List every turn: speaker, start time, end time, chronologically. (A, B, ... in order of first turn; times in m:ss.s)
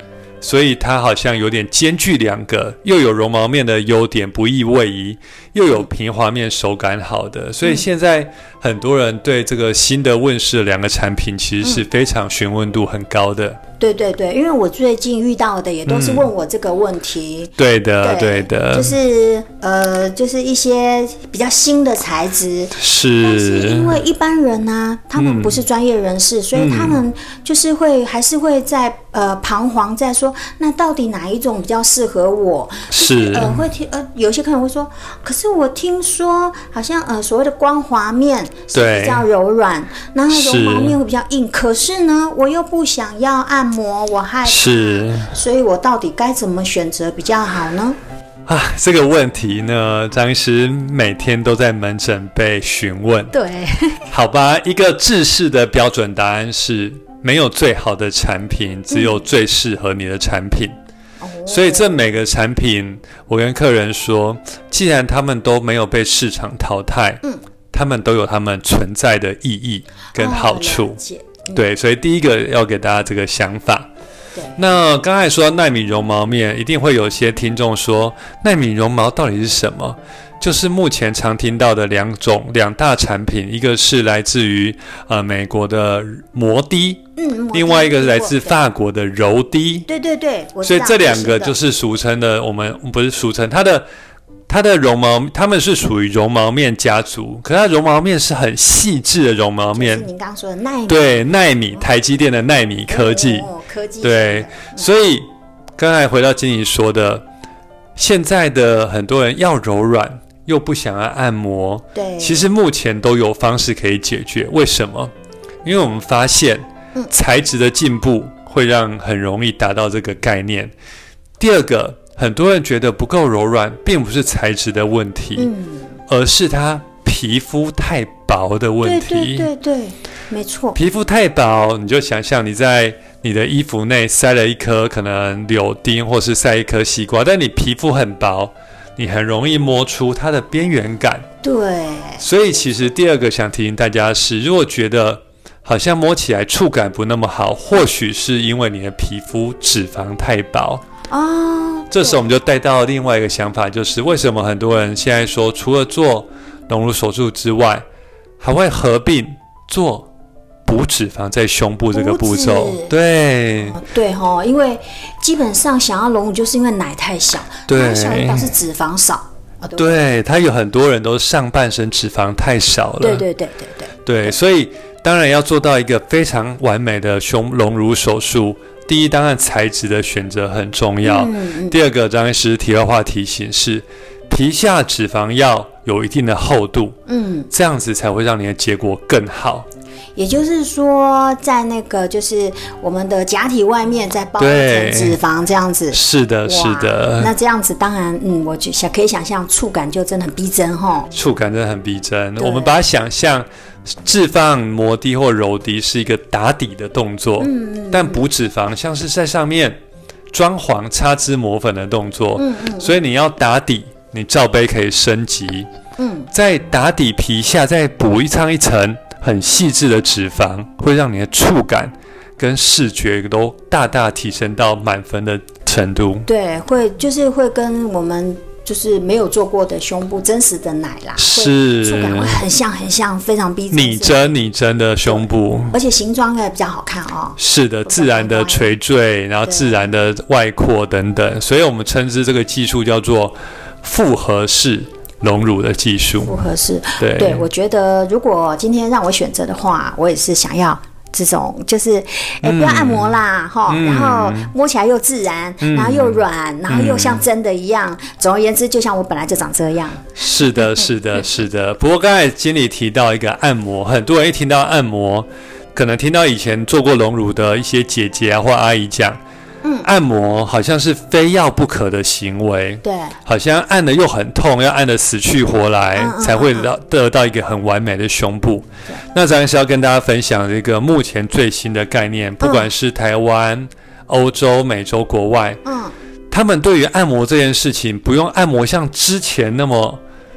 0:00.4-0:13.6 A
0:13.8-0:48.0 B
0:15.9-0:16.3 A
0:17.6-0:19.0 A
0:22.8-0:24.0 A
0:25.2-0:25.6 A
0:26.5-0:27.0 A
0:32.9-0:33.6 A
0:38.7-0:39.2 A
0:40.3-0:41.0 A
0:44.4-0:45.3 A
0:48.5-0:53.3 A
0:53.3-0:54.1 B
0:54.1-1:00.7 A
0:58.9-0:59.2 B
1:01.2-1:02.1 B
1:01.5-1:11.0 A
1:10.1-1:11.6 B
1:11.5-1:13.9 A
1:14.6-1:29.9 A
1:27.2-1:28.6 B
1:29.9-1:31.6 B
1:30.6-1:33.9 A
1:34.5-1:40.0 A
1:39.8-1:41.8 B
1:40.9-1:43.5 A
1:42.9-1:44.9 B
1:44.0-1:47.2 A
1:48.0-1:55.1 A
1:52.0-1:52.5 B
1:55.6-2:00.7 A
2:01.4-2:05.5 A
2:05.4-2:06.0 B
2:06.1-2:09.5 A
2:08.8-2:10.8 B
2:10.8-2:21.2 A
2:21.4-2:22.2 B
2:22.2-2:30.8 A
2:31.1-2:32.3 B
2:31.9-2:37.8 A
2:38.4-2:40.1 A
2:40.7-2:43.8 A
2:41.9-2:42.9 B
2:43.6-2:50.0 B
2:47.7-2:48.5 A
2:49.8-2:53.2 A
2:53.0-2:54.0 B
2:54.0-3:07.0 A
3:01.0-3:01.8 B
3:07.1-3:07.5 B
3:07.5-3:09.7 A
3:10.2-3:21.1 B
3:14.4-3:15.2 A
3:15.9-3:17.3 A
3:21.1-3:23.5 A
3:22.4-3:22.8 B
3:24.0-3:29.8 A
3:27.4-3:28.2 B
3:30.3-3:35.7 A
3:32.4-3:33.0 B
3:36.0-3:36.3 B
3:36.3-3:46.3 A
3:46.3-3:54.3 B
3:51.2-3:52.4 A
3:53.7-3:55.8 A
3:55.1-3:58.8 B
3:57.4-4:06.4 A
3:59.4-3:59.9 B
4:06.2-4:20.0 B
4:07.0-4:07.5 A
4:12.4-4:13.2 A
4:13.7-4:14.5 A
4:15.6-4:17.2 A
4:20.2-4:29.2 A
4:29.6-4:29.9 B
4:29.8-4:45.6 A
4:32.8-4:33.2 B
4:36.0-4:36.7 B
4:42.4-4:42.7 B
4:45.6-4:45.9 B
4:46.3-4:50.0 A